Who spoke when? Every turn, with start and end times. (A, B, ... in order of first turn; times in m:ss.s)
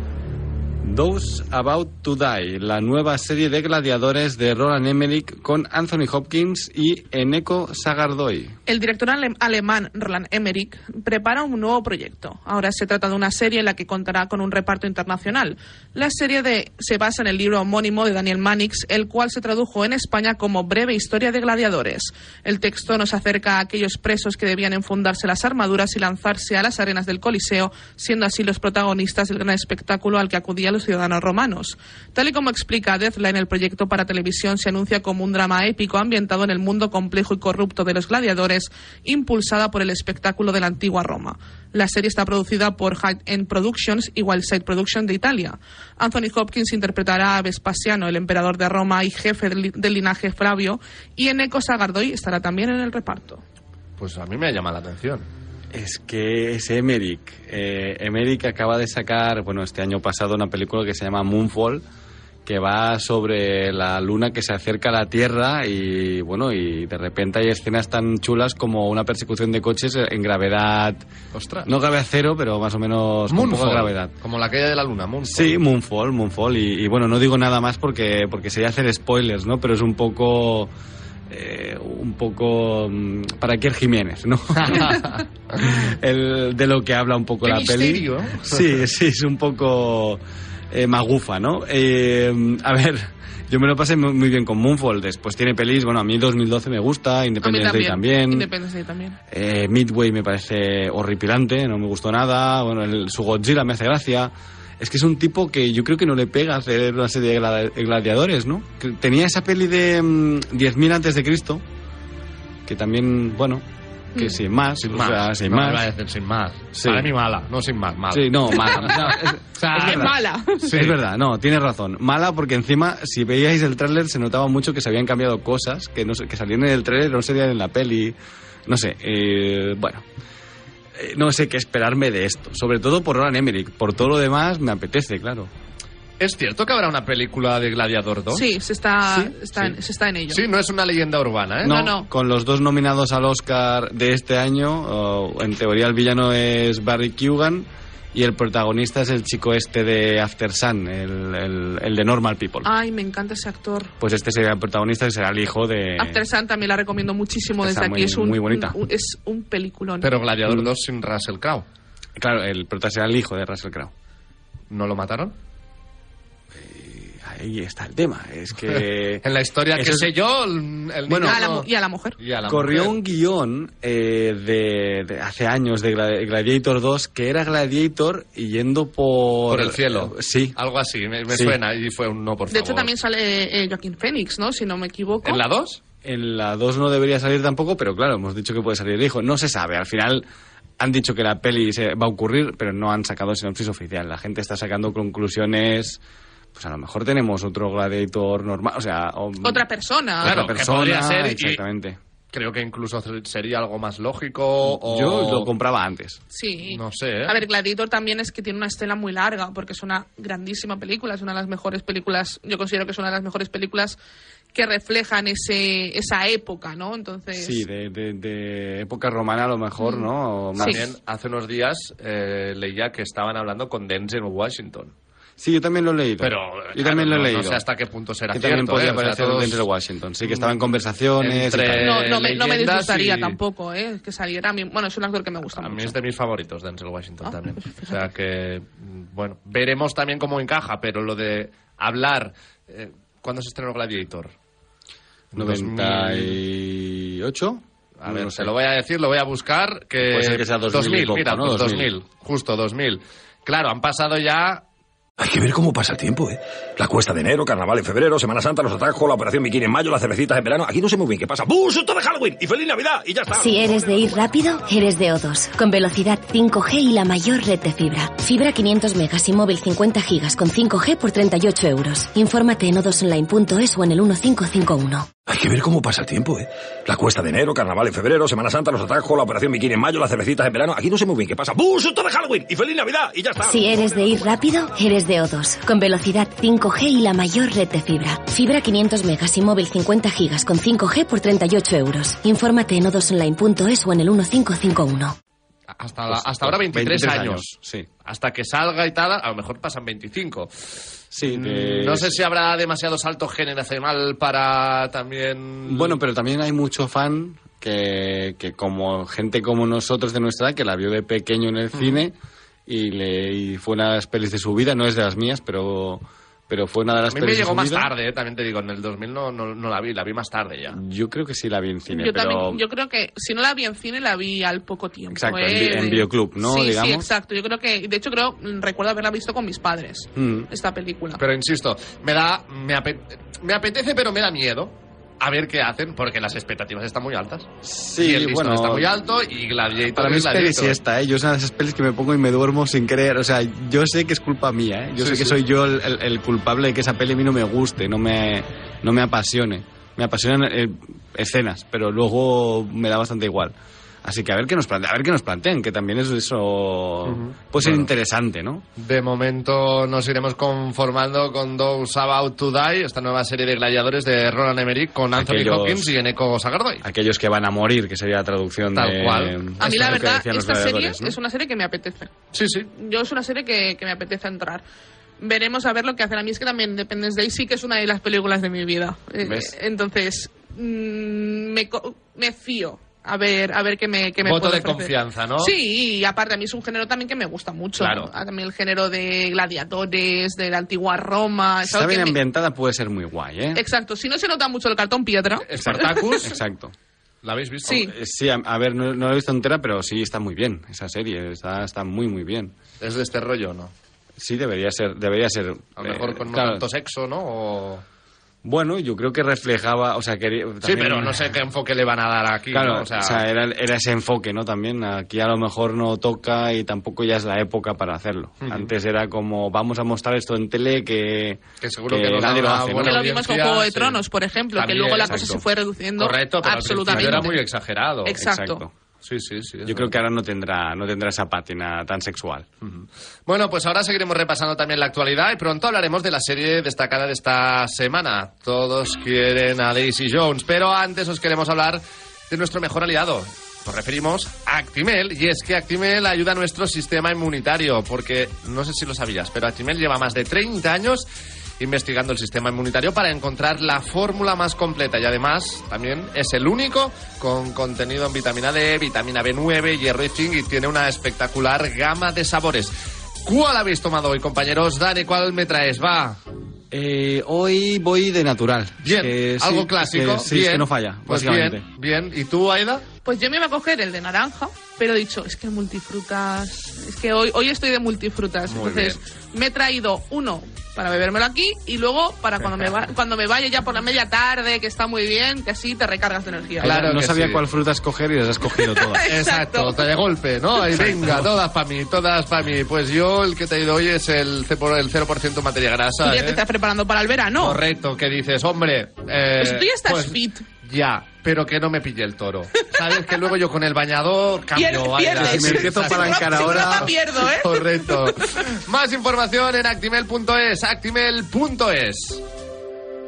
0:00.8-0:08.5 A
0:08.7-0:53.4 B
0:54.0-0:55.2 C
0:55.7-1:01.8 A
1:02.4-1:11.0 A
1:11.3-1:11.7 C
1:11.6-1:14.1 A
1:13.3-1:15.6 C
1:15.2-1:20.7 A
1:21.3-1:38.5 A
1:24.6-1:25.0 C
1:27.5-1:28.6 C
1:27.6-1:28.0 B
1:37.4-1:39.2 B
1:39.3-1:51.6 A
1:52.6-1:53.6 A
1:54.1-1:55.9 A
1:54.8-2:01.0 C
1:56.7-1:57.1 A
1:58.1-2:10.0 A
1:59.7-2:00.7 B
2:10.9-2:15.5 A
2:16.2-2:18.4 C
2:18.3-2:20.4 B
2:20.3-2:21.8 C
2:21.6-2:32.7 A
2:21.6-2:22.1 B
2:32.6-2:33.9 B
2:34.0-2:36.2 A
2:36.0-2:40.1 B
2:37.6-2:38.8 A
2:40.0-2:41.6 C
2:42.2-2:43.9 A
2:44.7-2:45.4 C
2:46.5-2:50.1 A
2:49.2-2:51.7 C
2:51.1-2:51.4 A
2:51.2-2:52.2 B
2:52.2-2:53.0 C
2:52.4-3:00.6 A
2:59.5-3:02.9 C
3:01.3-3:01.6 A
3:02.5-3:05.4 B
3:05.2-3:05.8 C
3:06.0-3:10.2 A
3:10.8-3:16.0 A
3:16.5-3:19.6 A
3:19.4-3:20.3 B
3:20.2-3:22.0 A
3:20.2-3:21.6 C
3:22.3-3:25.5 C
3:24.6-3:26.2 A
3:26.3-3:34.0 B
3:26.6-3:27.3 C
3:34.5-3:37.6 B
3:37.3-3:40.8 A
3:39.8-3:40.1 B
3:40.6-3:44.9 C
3:45.4-3:47.6 A
3:46.2-3:49.6 C
3:48.3-3:52.0 A
3:50.2-3:50.6 C
3:51.2-3:53.4 C
3:51.8-3:55.9 B
3:55.6-4:04.3 C
3:57.2-3:58.0 B
4:05.3-4:06.4 C
4:05.3-4:08.5 A
4:08.0-4:14.6 C
4:10.0-4:11.9 A
4:15.2-4:24.4 D
4:23.3-4:35.1 E
4:35.3-4:44.4 D
4:43.4-4:55.2 E
4:55.7-4:57.5 C
4:56.1-4:57.9 A
4:58.0-5:00.5 C
5:01.1-5:02.2 A
5:01.2-5:06.0 C
5:05.6-5:12.1 A
5:12.6-5:17.9 A
5:17.0-5:20.8 C
5:20.7-5:22.6 A
5:21.9-5:31.2 B
5:25.1-5:27.1 A
5:30.2-5:30.5 A
5:31.2-5:37.5 C
5:37.6-5:38.9 A
5:38.0-5:40.8 C
5:39.9-5:58.6 A
5:45.0-5:45.4 C
5:57.0-5:57.8 C
5:58.8-6:06.8 C
6:05.1-6:05.9 A
6:06.8-6:11.2 A
6:08.7-6:09.8 C
6:09.6-6:12.1 B
6:12.3-6:12.7 C
6:12.7-6:14.6 B
6:15.2-6:32.2 B
6:19.2-6:19.5 A
6:24.2-6:25.5 C
6:27.8-6:28.1 C
6:31.6-6:33.6 A
6:33.5-6:35.5 B
6:35.4-6:36.4 C
6:35.6-6:36.7 A
6:37.2-6:37.8 C
6:37.6-6:37.9 B
6:37.7-6:42.5 A
6:42.8-6:43.7 C
6:44.2-6:46.6 A
6:45.8-6:47.8 C
6:48.4-6:51.3 A
6:50.6-6:53.2 C
6:52.5-7:03.0 A
6:58.4-6:58.7 C
7:01.6-7:04.0 C
7:02.8-7:07.4 B
7:04.5-7:05.2 C
7:05.1-7:05.4 A
7:06.0-7:08.2 C
7:06.9-7:07.3 A
7:08.0-7:08.6 B
7:08.1-7:08.7 A
7:09.0-7:10.0 C
7:09.6-7:12.4 A
7:12.6-7:31.0 C
7:31.6-7:46.2 C
7:46.7-7:51.6 A
7:48.8-7:52.8 C
7:53.0-8:06.8 B
7:58.5-7:59.0 C
8:06.6-8:09.0 A
8:06.6-8:07.4 C
8:08.6-8:09.9 B
8:09.0-8:16.4 C
8:10.8-8:11.3 A
8:16.0-8:17.6 B
8:17.4-8:32.2 C
8:19.4-8:20.4 B
8:24.5-8:28.2 B
8:25.2-8:26.9 A